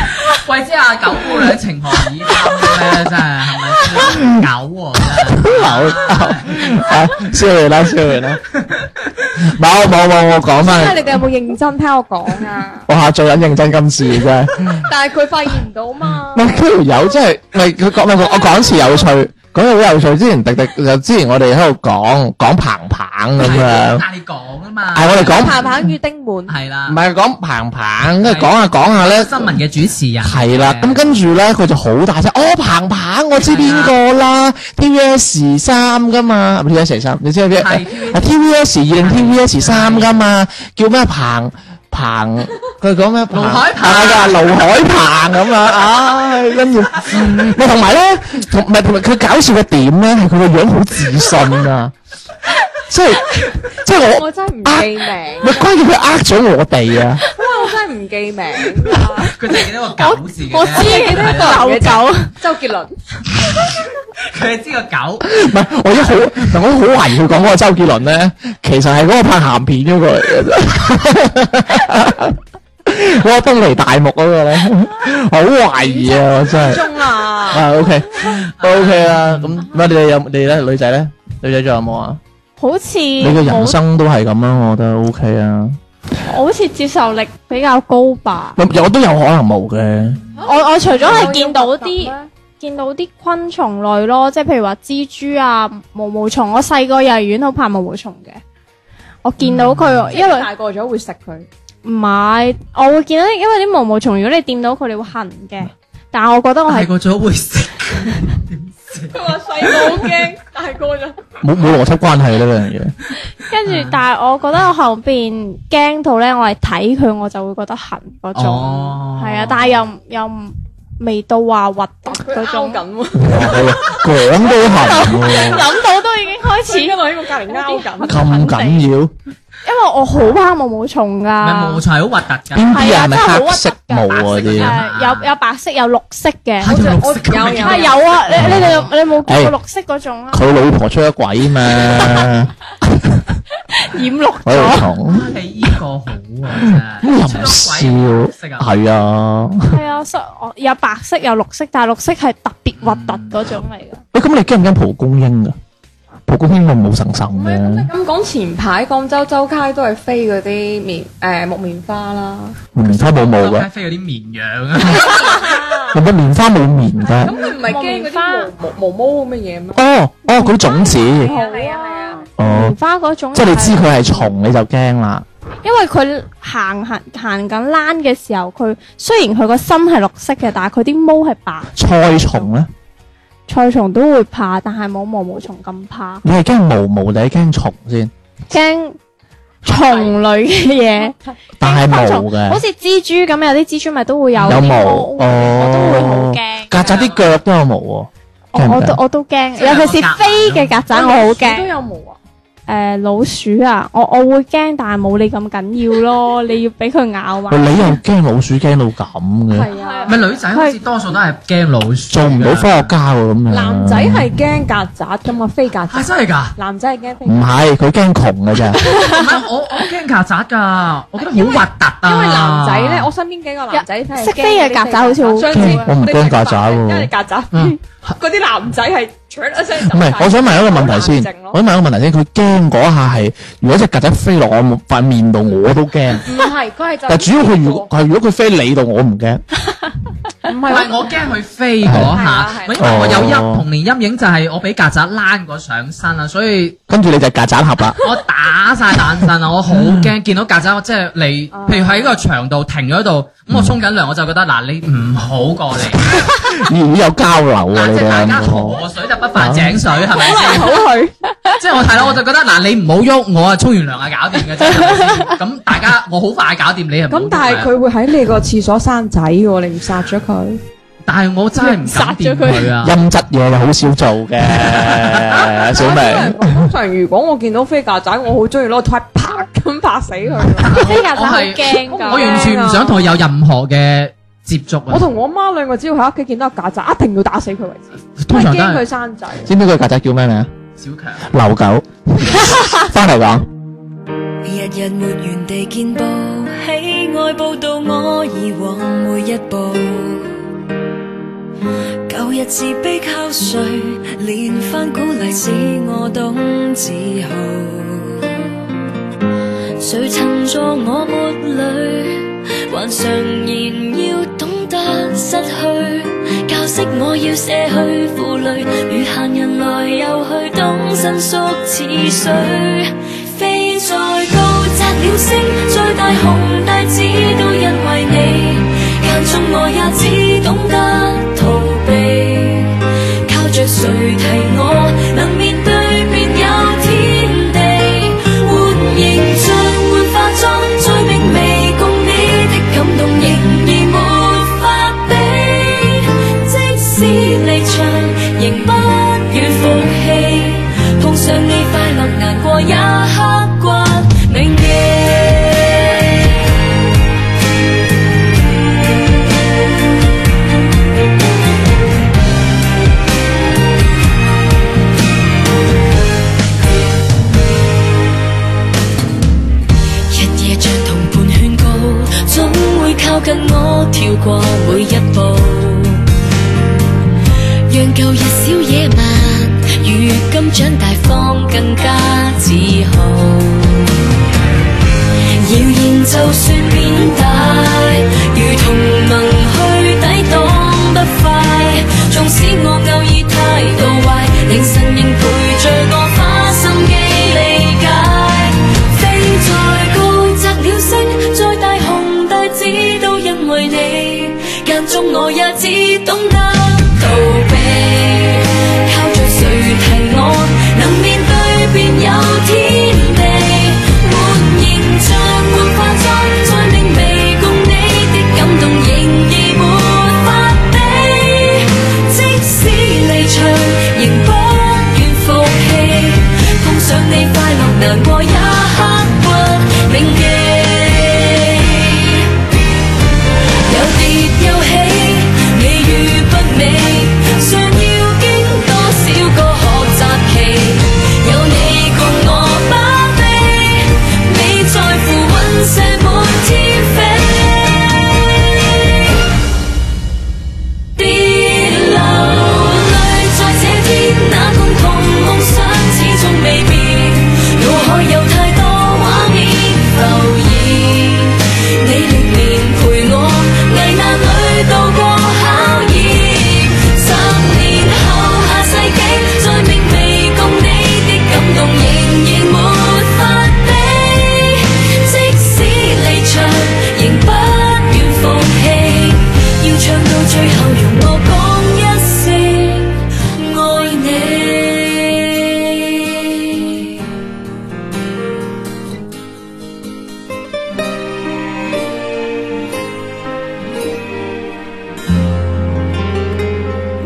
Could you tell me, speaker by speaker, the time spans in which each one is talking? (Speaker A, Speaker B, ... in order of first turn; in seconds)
Speaker A: 0.3-6.8, 8.6-9.2, 23.4-25.7, 26.5-27.0, 28.2-31.2, 33.4-34.0, 37.5-38.3, 39.0-40.2, 43.3-44.5, 47.0-47.3, 59.3-61.7, 63.6-65.3, 78.6-79.6, 99.4-100.1, 106.7-110.0, 113.6-114.0, 118.3-119.8, 131.4-132.7, 134.4-135.3, 136.6-138.9, 145.0-148.7, 152.8-153.4, 162.8-165.4, 196.7-197.3, 199.6-200.8, 210.1-212.9, 215.9-216.5, 219.0-223.1, 240.7-246.8, 248.0-256.1, 257.7-260.8, 261.6-267.7, 271.1-273.0, 274.6-275.2, 280.3-285.1, 288.2-288.8, 290.8-291.3
Speaker B: 3.9-4.5, 5.4-8.4, 9.4-11.2, 12.9-14.8, 16.3-24.1, 24.9-25.7, 26.9-29.6, 30.2-51.9, 52.9-54.9, 55.4-57.2, 65.3-76.8, 77.5-82.2, 83.2-85.8, 88.5-90.2, 111.4-112.9, 123.2-125.6, 128.1-129.1, 132.5-134.8, 138.3-139.5, 140.3-143.3, 144.4-145.3, 146.7-149.8, 154.1-155.5, 156.3-157.9, 162.7-163.7, 165.9-167.3, 169.7-171.3, 172.4-172.8, 173.3-175.2, 181.8-182.7, 186.2-188.1, 191.6-192.6, 194.4-199.0, 207.5-209.7, 212.1-214.3, 217.2-218.9, 225.5-227.1, 229.8-236.3, 237.1-239.4, 241.8-242.2, 242.8-243.6, 246.9-248.0, 249.7-250.1, 253.5-253.8, 256.1-258.8, 259.4-259.8, 272.8-276.7, 289.4-290.5, 291.3-293.5
Speaker C: 10.6-12.9, 14.8-16.6, 25.3-26.5, 54.0-55.6, 57.4-59.3, 60.7-63.0, 75.8-77.7, 90.3-92.3, 100.1-101.5, 109.1-111.2, 122.0-125.7, 126.5-128.2, 136.6-138.0, 157.3-162.6, 164.9-165.9, 167.2-169.8, 170.6-172.2, 189.7-190.1, 200.9-202.2, 209.5-210.2, 213.5-217.5, 221.2-231.6, 236.2-237.9, 240.4-241.1, 242.1-243.2, 251.5-252.2, 260.2-261.1, 267.1-270.6, 275.3-281.0, 281.8-283.1, 284.9-289.5
Speaker D: 60.0-62.3, 82.6-83.8, 86.2-88.6, 90.4-98.4, 99.2-100.5, 101.8-106.9, 113.4-122.8, 124.6-128.9, 129.6-131.8, 132.7-136.8, 137.5-140.4, 141.8-142.3, 143.7-144.9, 149.7-154.0, 167.2-168.5, 170.3-174.3, 175.6-181.7, 183.5-186.2, 188.5-189.0, 189.6-196.8, 198.5-201.7, 202.7-208.0, 209.7-210.8, 218.9-219.2, 223.7-225.8, 271.6-272.7, 280.7-282.6
Speaker E: 294.4-300.4, 302.1-308.4, 309.8-356.3, 370.1-376.1, 377.7-384.0, 385.3-432.3, 433.6-448.9, 450.9-486.9